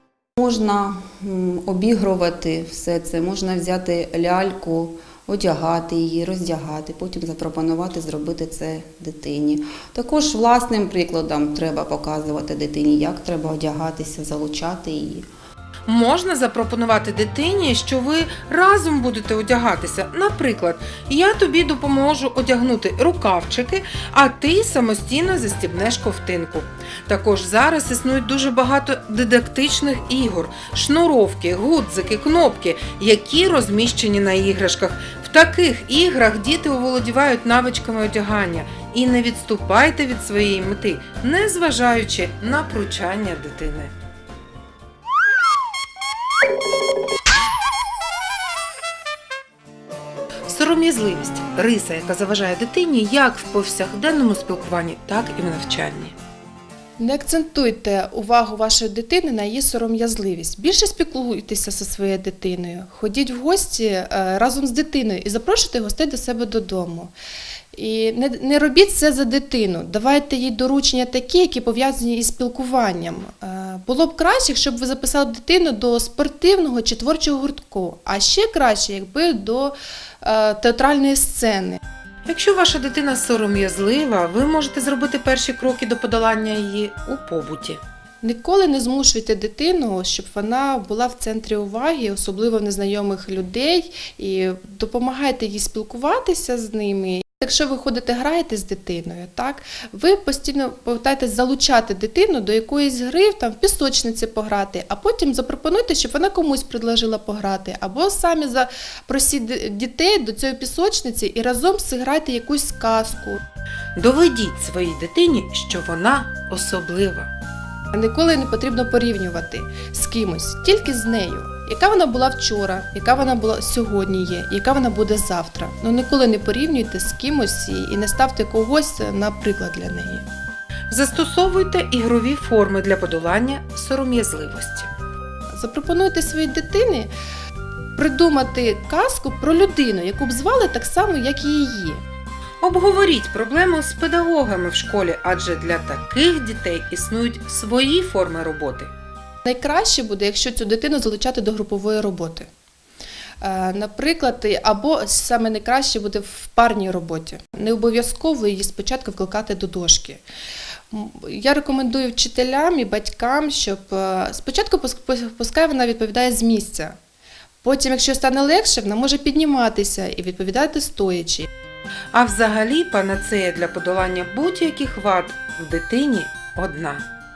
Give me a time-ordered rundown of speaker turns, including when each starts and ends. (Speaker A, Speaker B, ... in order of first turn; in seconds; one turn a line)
Speaker A: 0.3-15.3
Speaker B: 15.8-43.9
Speaker B: 50.5-56.1
Speaker C: 57.0-67.1
Speaker C: 67.7-81.8
Speaker B: 82.3-87.8
Speaker C: 88.2-113.4
Speaker B: 114.0-117.3
Speaker C: 117.9-130.2
Speaker B: 130.9-134.9
Speaker C: 135.5-137.1
Speaker C: 138.0-142.0
Speaker B: 142.6-148.9
Speaker C: 149.4-152.5
Speaker C: 153.4-160.2
Speaker C: 160.9-166.9
Speaker C: 167.6-171.5
Speaker B: 172.1-177.1